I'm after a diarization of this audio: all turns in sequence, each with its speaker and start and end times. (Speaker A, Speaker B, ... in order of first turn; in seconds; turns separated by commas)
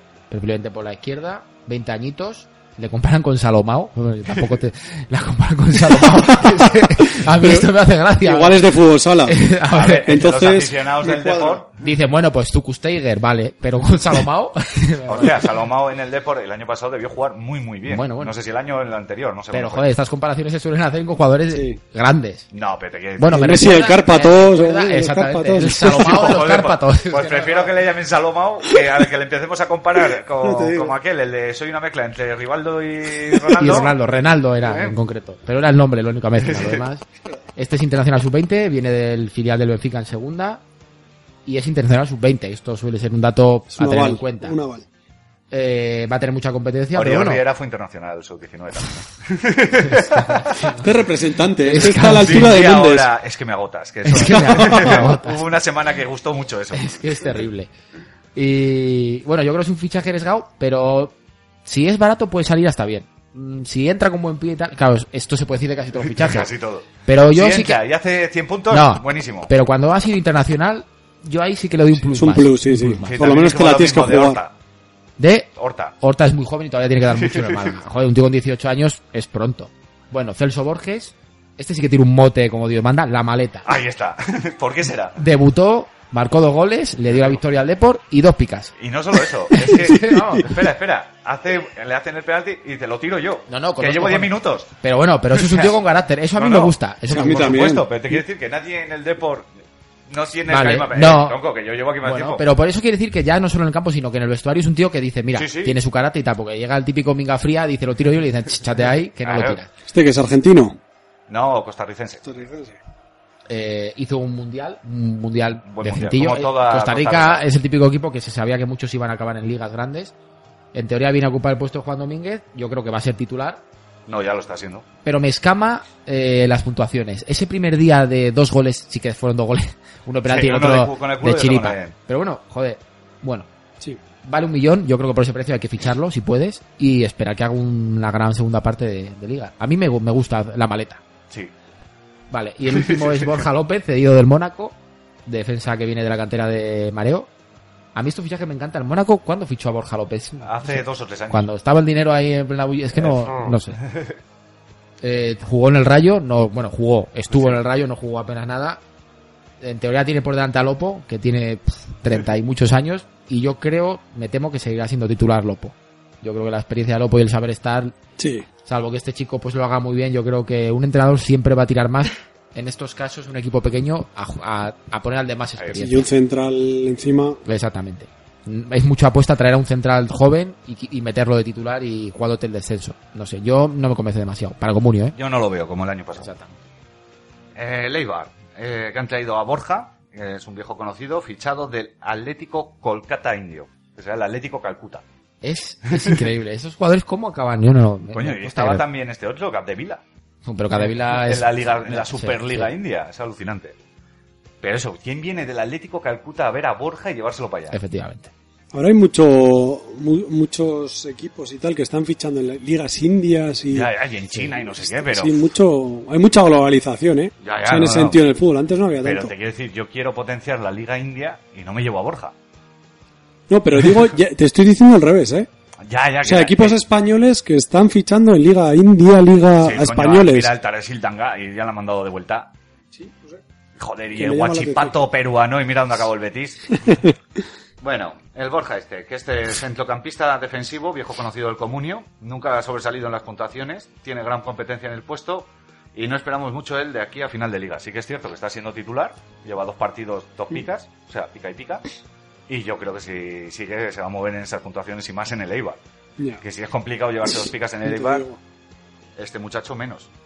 Speaker A: 0.3-8.7, Speaker B: 7.2-9.4, Speaker A: 9.2-10.1, Speaker C: 9.7-11.8, Speaker B: 10.0-11.6, Speaker A: 11.8-15.4, Speaker C: 15.1-19.9, Speaker A: 17.9-18.3, Speaker A: 19.5-22.5, Speaker B: 21.5-21.8, Speaker C: 22.5-23.8, Speaker A: 23.2-27.7, Speaker B: 23.3-26.3, Speaker C: 25.8-33.9, Speaker B: 30.1-30.9, Speaker A: 33.6-37.0, Speaker C: 34.6-35.0, Speaker C: 36.4-36.8, Speaker A: 37.5-40.6, Speaker A: 41.5-44.6, Speaker B: 43.7-44.9, Speaker A: 45.5-47.4, Speaker C: 46.9-50.6, Speaker A: 49.8-50.9, Speaker B: 50.7-53.1, Speaker A: 51.6-52.6, Speaker C: 52.2-57.2, Speaker A: 54.0-55.4, Speaker B: 54.3-55.1, Speaker A: 56.7-57.7, Speaker A: 58.3-61.1, Speaker A: 61.6-66.5, Speaker C: 66.0-69.5, Speaker A: 67.0-67.8, Speaker A: 68.7-73.2, Speaker B: 72.1-74.4, Speaker C: 73.0-74.5, Speaker A: 75.2-75.5, Speaker C: 75.6-76.0, Speaker A: 76.0-83.7, Speaker C: 77.1-77.8, Speaker C: 83.6-85.2, Speaker A: 85.2-88.7, Speaker C: 88.8-94.7, Speaker A: 89.5-90.5, Speaker A: 93.5-97.6, Speaker C: 95.3-95.8, Speaker C: 96.3-99.5, Speaker B: 97.1-97.9, Speaker C: 100.1-102.4, Speaker A: 100.5-101.4, Speaker A: 102.0-109.7, Speaker C: 105.3-105.8, Speaker C: 109.2-109.6, Speaker B: 109.9-110.8, Speaker C: 111.3-112.2, Speaker B: 112.2-112.8, Speaker A: 113.5-120.1, Speaker C: 115.7-117.4, Speaker A: 120.7-123.6, Speaker C: 124.1-124.8, Speaker A: 125.0-133.5, Speaker C: 130.2-131.9, Speaker A: 134.2-141.0, Speaker A: 142.3-147.3, Speaker C: 142.7-143.4, Speaker A: 147.9-153.8, Speaker C: 150.4-151.5, Speaker C: 153.0-154.1, Speaker A: 155.0-158.8, Speaker C: 157.3-157.6, Speaker A: 159.6-167.9, Speaker B: 168.2-168.5, Speaker A: 168.6-176.1, Speaker B: 175.8-177.4, Speaker A: 177.4-185.2, Speaker C: 185.1-186.3, Speaker A: 186.2-186.5, Speaker C: 187.6-195.0, Speaker A: 195.4-198.8, Speaker C: 195.9-196.2, Speaker C: 198.1-200.0, Speaker A: 200.4-202.7, Speaker C: 200.8-203.7, Speaker C: 204.6-207.8, Speaker A: 207.7-208.3, Speaker B: 208.7-213.9, Speaker C: 213.7-215.4, Speaker B: 214.5-219.3, Speaker C: 217.4-218.2, Speaker C: 219.0-222.3, Speaker B: 223.5-225.5, Speaker C: 225.9-226.8, Speaker B: 226.2-230.5, Speaker C: 229.6-232.5, Speaker B: 232.9-233.4, Speaker C: 233.8-237.0, Speaker B: 234.1-235.0, Speaker B: 236.8-237.1, Speaker C: 237.8-251.8, Speaker C: 252.5-255.8, Speaker C: 256.4-258.2, Speaker B: 257.8-258.4, Speaker C: 259.2-260.1